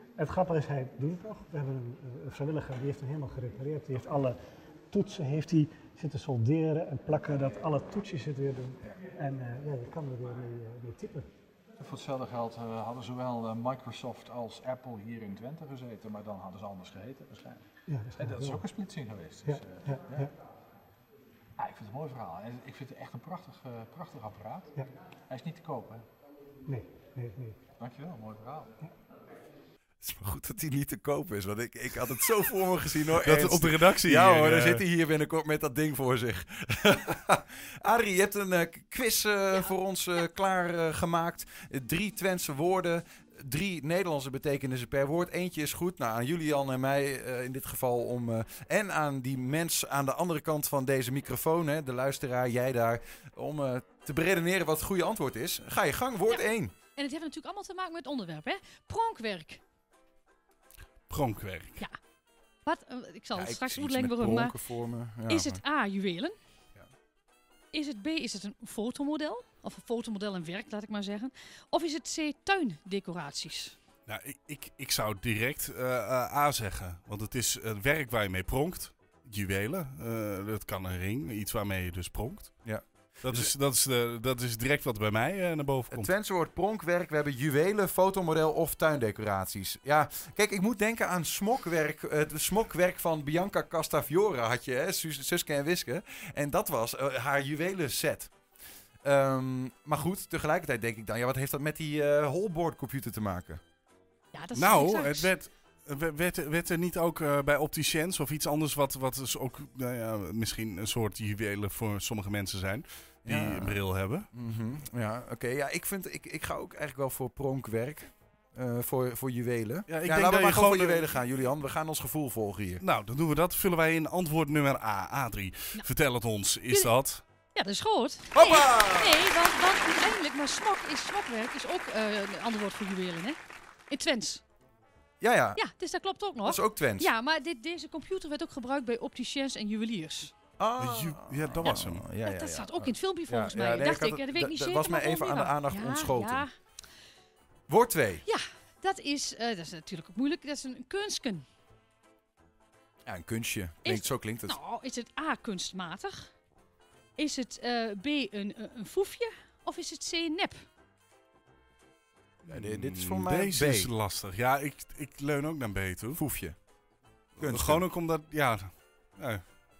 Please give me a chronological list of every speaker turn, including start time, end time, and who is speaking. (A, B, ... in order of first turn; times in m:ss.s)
0:00.2-0:04.4 A
0:04.9-0:11.3 A
0:11.8-0:17.6 B
0:17.9-0:18.6 A
0:18.2-0:20.3 B
0:19.4-0:20.3 A
0:21.6-0:24.7 B
0:25.3-0:26.0 B
0:26.6-0:27.6 A
0:27.8-0:28.7 B
0:30.0-0:56.7 C
0:33.2-0:34.8 D
0:56.3-0:59.6 E
1:01.1-1:01.8 D
1:02.6-1:04.6 E
1:03.3-1:05.6 C
1:05.3-1:06.4 E
1:07.7-1:13.8 E
1:14.0-1:26.1 D
1:22.6-1:23.5 C
1:25.9-1:38.3 C
1:39.0-1:43.6 C
1:44.3-1:45.4 E
1:44.5-1:54.3 D
1:53.2-2:02.8 C
1:59.9-2:01.0 D
2:02.8-2:07.2 D
2:06.7-2:07.0 E
2:07.5-2:14.4 E
2:08.3-2:09.2 C
2:15.2-2:15.6 C
2:15.6-2:20.3 E
2:16.4-2:17.1 C
2:20.6-2:26.4 C
2:20.8-2:22.0 D
2:22.2-2:26.6 E
2:27.7-2:28.2 C
2:28.2-2:31.4 E
2:33.0-2:34.6 C
2:33.8-2:36.3 E
2:37.2-2:40.6 E
2:42.4-2:46.2 D
2:42.5-2:43.9 C
2:46.1-2:46.6 C
2:47.4-2:47.8 C
2:47.4-2:49.4 D